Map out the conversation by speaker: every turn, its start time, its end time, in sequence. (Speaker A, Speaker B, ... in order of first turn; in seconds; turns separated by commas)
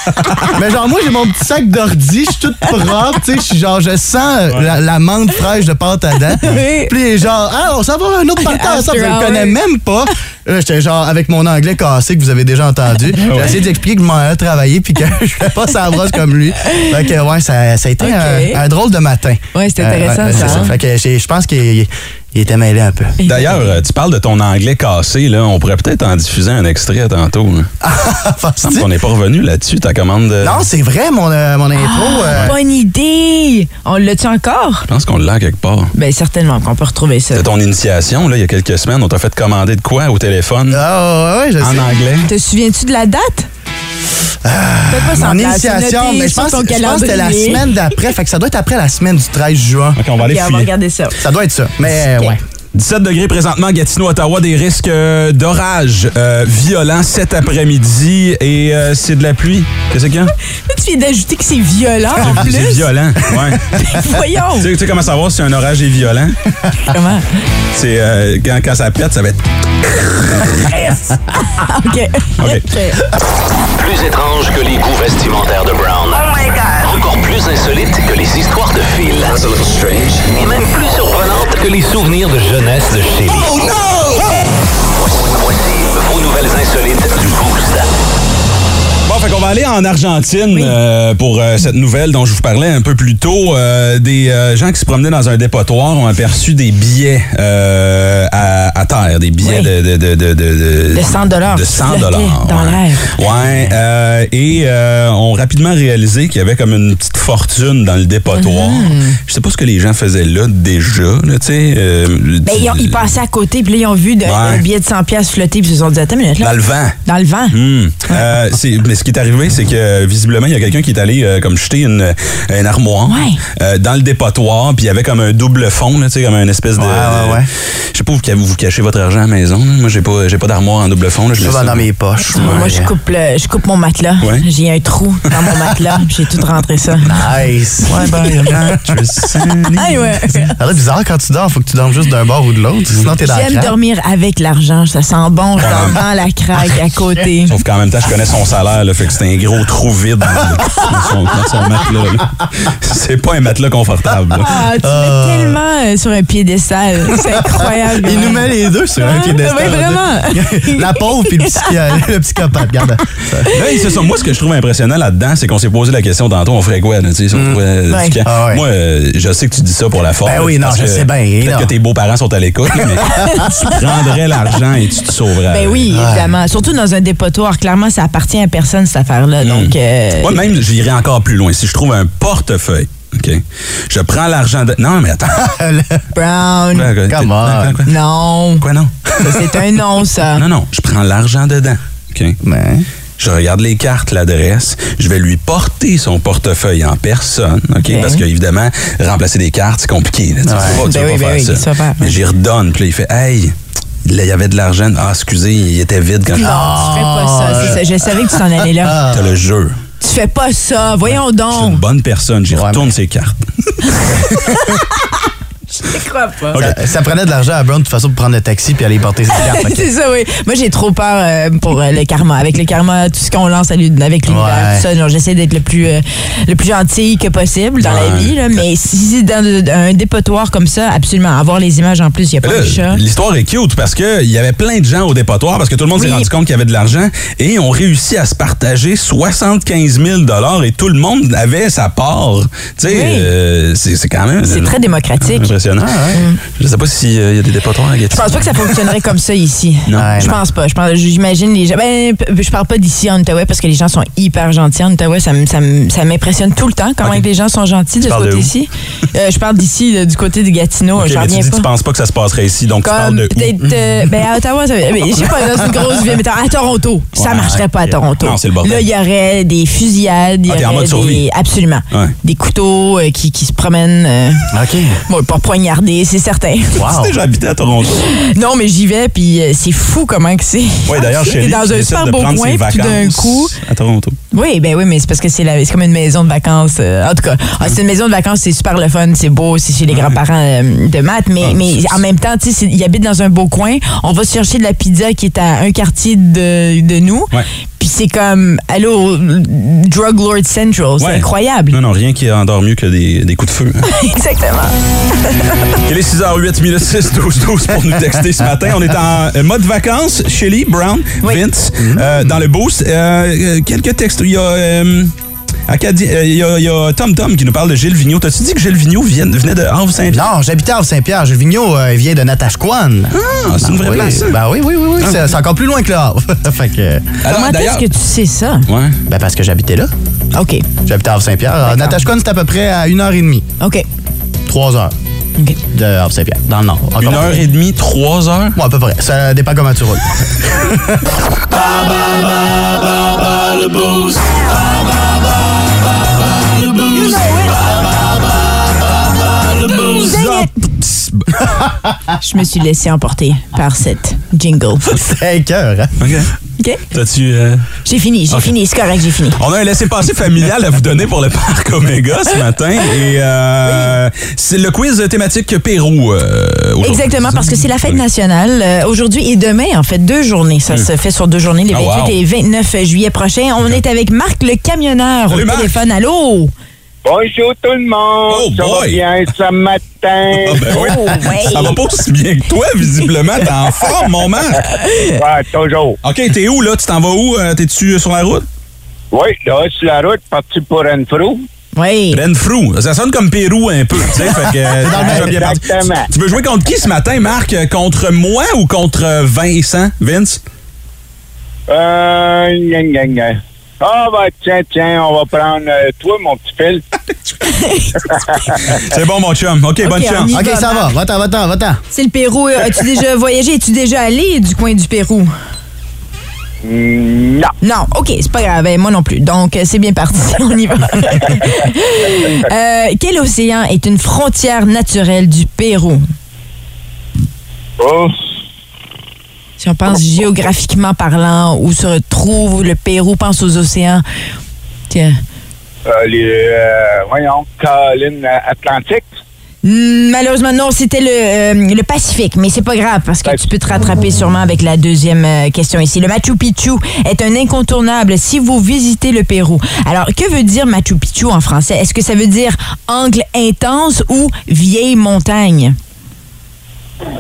Speaker A: 0.5-23.2, Speaker B: 6.4-6.9, Speaker B: 8.4-9.6, Speaker C: 13.2-13.6, Speaker B: 18.0-18.6, Speaker B: 19.5-20.7, Speaker C: 20.3-20.6, Speaker B: 23.2-23.7, Speaker C: 23.2-27.7, Speaker A: 27.8-28.9, Speaker C: 28.6-30.7, Speaker A: 30.4-32.6, Speaker B: 31.8-34.9, Speaker C: 34.9-35.9, Speaker B: 35.9-37.5, Speaker C: 37.3-40.8, Speaker A: 40.7-41.9, Speaker C: 41.6-42.3, Speaker B: 42.3-43.5, Speaker A: 44.4-50.0, Speaker B: 44.9-47.7, Speaker C: 50.0-50.7, Speaker B: 50.2-51.2, Speaker A: 51.2-52.4, Speaker C: 52.7-60.3, Speaker B: 60.7-62.9, Speaker C: 62.2-66.4, Speaker B: 63.7-64.7, Speaker B: 66.9-67.3, Speaker C: 67.7-70.8, Speaker B: 71.4-73.0, Speaker C: 72.4-72.7, Speaker D: 73.8-83.8, Speaker C: 83.5-84.4, Speaker D: 85.3-87.9, Speaker C: 89.1-113.1, Speaker B: 99.4-99.7, Speaker B: 100.9-103.1, Speaker A: 103.2-103.8, Speaker B: 108.3-109.2, Speaker B: 112.5-117.6, Speaker C: 114.2-114.7, Speaker C: 116.4-117.0, Speaker C: 117.5-132.7, Speaker B: 123.1-123.4, Speaker A: 126.8-127.5, Speaker A: 131.4-132.9, Speaker B: 132.3-137.1, Speaker A: 137.1-139.0, Speaker C: 137.8-140.4, Speaker B: 139.8-140.5, Speaker A: 140.6-143.7, Speaker B: 143.2-147.5, Speaker C: 145.6-146.0, Speaker C: 147.5-154.6, Speaker B: 154.4-161.8, Speaker A: 154.7-155.6, Speaker A: 157.9-163.5, Speaker C: 163.5-175.9, Speaker B: 167.9-168.2, Speaker A: 168.2-168.6, Speaker A: 170.2-171.7, Speaker A: 173.0-173.3, Speaker B: 173.1-173.7, Speaker B: 175.5-180.5, Speaker A: 175.9-176.3, Speaker C: 179.4-185.5, Speaker A: 185.4-186.0, Speaker B: 186.1-186.9, Speaker C: 186.7-187.9, Speaker A: 187.1-187.8, Speaker B: 187.9-188.7, Speaker C: 188.6-188.9, Speaker B: 189.2-190.4, Speaker C: 190.4-192.4, Speaker A: 192.4-192.9, Speaker C: 193.2-203.5, Speaker B: 197.8-198.2, Speaker A: 200.4-200.8, Speaker B: 200.7-202.2, Speaker C: 204.1-206.7, Speaker B: 206.3-209.0, Speaker A: 206.4-209.3, Speaker C: 209.1-209.8, Speaker B: 210.0-211.8, Speaker C: 211.5-214.1, Speaker A: 212.5-212.9, Speaker B: 213.9-215.1, Speaker B: 215.8-216.6, Speaker C: 216.5-216.8, Speaker A: 216.6-219.9, Speaker B: 219.3-233.0, Speaker A: 224.3-224.8, Speaker C: 227.8-228.6, Speaker C: 232.4-248.9, Speaker B: 235.9-236.3, Speaker B: 242.9-243.3, Speaker B: 244.4-245.5, Speaker A: 245.8-246.2, Speaker B: 246.1-246.4, Speaker B: 248.1-261.7, Speaker C: 249.9-250.3, Speaker A: 249.9-250.4, Speaker C: 258.0-258.5, Speaker C: 261.0-263.8, Speaker B: 262.8-274.5, Speaker C: 267.2-267.7, Speaker C: 268.2-268.9, Speaker C: 270.5-271.2, Speaker A: 274.5-275.0, Speaker B: 275.1-276.8, Speaker A: 276.8-277.2, Speaker C: 276.8-278.1, Speaker B: 278.0-283.6, Speaker C: 280.9-284.2, Speaker B: 284.3-301.8, Speaker C: 289.9-290.2, Speaker C: 291.4-292.0, Speaker C: 301.0-303.9, Speaker B: 303.9-305.8, Speaker C: 305.8-315.1, Speaker A: 311.8-312.4, Speaker C: 315.7-320.2, Speaker A: 320.1-327.2, Speaker C: 323.1-324.4, Speaker C: 325.0-325.2, Speaker C: 327.2-327.9, Speaker B: 327.2-328.7, Speaker C: 328.7-329.0, Speaker A: 329.1-329.9, Speaker B: 330.3-330.7, Speaker A: 330.9-333.5, Speaker B: 331.7-332.0, Speaker A: 334.5-334.9, Speaker A: 335.7-337.4, Speaker C: 337.0-338.6, Speaker A: 338.5-341.1, Speaker C: 341.6-344.4, Speaker C: 346.6-347.5, Speaker B: 347.0-347.7, Speaker C: 349.3-351.5, Speaker B: 349.9-350.5, Speaker B: 352.2-355.0, Speaker A: 354.9-356.1, Speaker C: 356.0-356.3, Speaker C: 356.9-357.7, Speaker B: 357.9-359.4, Speaker C: 358.3-358.6, Speaker C: 359.4-368.0, Speaker B: 363.6-363.9, Speaker B: 366.8-376.5, Speaker C: 371.7-372.2, Speaker C: 375.3-375.8, Speaker E: 377.1-380.7, Speaker C: 378.3-379.0, Speaker C: 380.4-384.7, Speaker B: 380.7-381.8, Speaker B: 384.7-385.2, Speaker E: 385.1-386.0, Speaker C: 386.0-388.5, Speaker E: 389.1-391.4, Speaker B: 391.8-392.2, Speaker C: 392.1-400.4, Speaker A: 394.8-395.5, Speaker E: 394.9-396.1, Speaker E: 401.7-406.8, Speaker B: 407.5-408.0, Speaker E: 408.1-408.8, Speaker C: 408.6-410.3, Speaker B: 409.8-410.9, Speaker A: 410.3-411.8, Speaker B: 411.9-415.3, Speaker E: 416.6-417.5, Speaker B: 417.6-426.0, Speaker E: 427.8-428.2, Speaker B: 429.6-434.0, Speaker B: 434.9-435.2, Speaker E: 435.9-439.1, Speaker B: 439.6-455.8